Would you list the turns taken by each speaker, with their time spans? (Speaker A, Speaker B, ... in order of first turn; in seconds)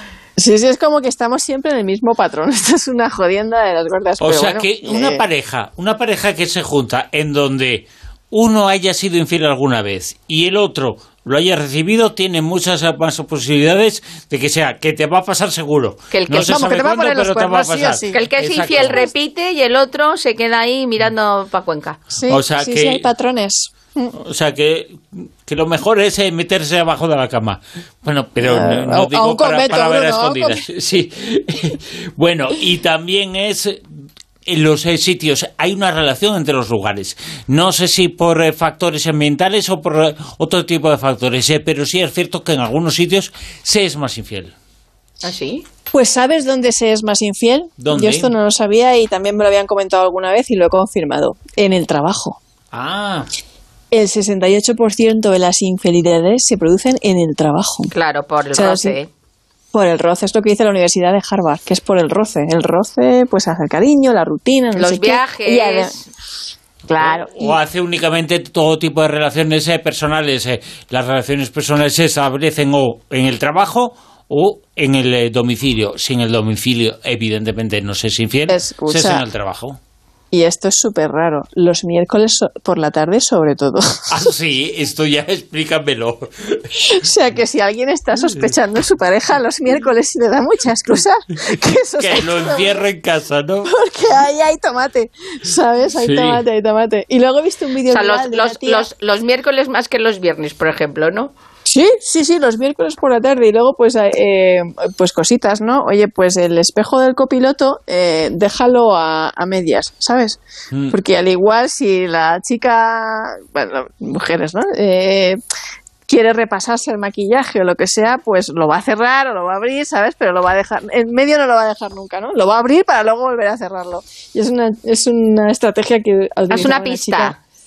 Speaker A: 0.4-5.2, 16.3-19.1, 22.1-24.1, 28.4-30.6, 45.9-52.4, 53.9-57.9, 58.5-59.0, 59.7-66.0, 66.9-67.6, 78.5-79.2, 80.3-84.3, 86.8-92.9, 93.6-98.9, 101.7-115.4, 116.1-127.4
Speaker B: 4.2-19.0, 22.2-23.0, 24.2-33.8, 34.5-44.5, 47.8-48.3, 52.7-53.3, 67.0-79.8, 84.1-86.7, 92.0-93.7, 96.0-96.4
Speaker C: 16.1-16.6, 18.1-22.0, 45.2-45.6, 57.9-59.1, 64.8-66.0, 97.9-101.3, 126.5-127.4